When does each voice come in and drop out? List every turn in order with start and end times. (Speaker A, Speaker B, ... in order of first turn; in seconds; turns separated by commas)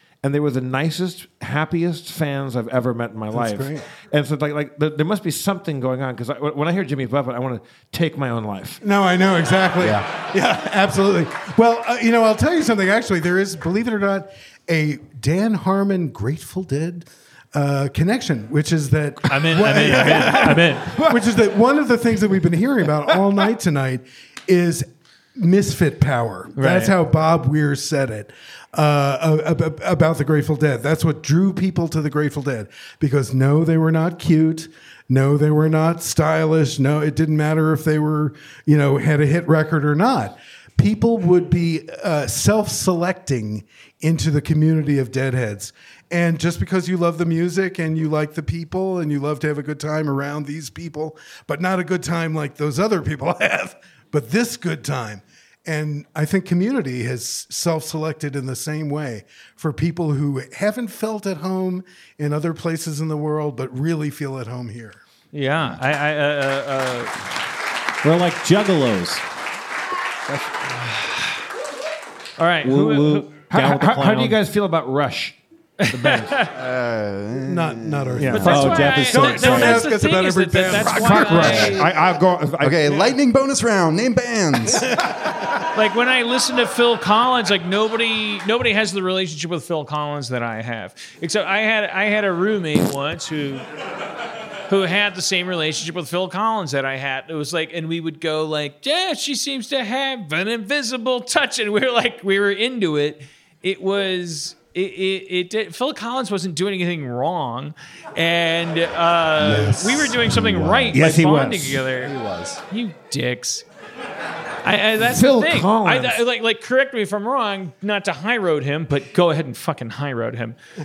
Speaker A: 0.2-8.8, Speaker B: 3.3-3.8, Speaker B: 8.8-65.0, Speaker C: 9.8-10.0, Speaker D: 19.3-20.9, Speaker D: 26.6-26.9, Speaker D: 65.3-67.1, Speaker E: 68.0-69.2, Speaker D: 70.8-71.4, Speaker D: 72.4-73.3, Speaker A: 72.7-75.3, Speaker E: 72.8-74.3, Speaker D: 75.8-76.5, Speaker A: 75.9-76.3, Speaker C: 76.5-78.3, Speaker B: 77.4-81.8, Speaker A: 78.2-78.7, Speaker D: 78.3-81.9, Speaker E: 78.3-79.9, Speaker A: 80.6-83.1, Speaker C: 82.6-84.9, Speaker D: 85.7-93.7, Speaker D: 94.7-112.1, Speaker C: 109.4-111.0, Speaker A: 110.9-111.8, Speaker C: 112.0-112.6, Speaker D: 112.7-113.6, Speaker D: 114.6-120.5, Speaker A: 115.0-116.2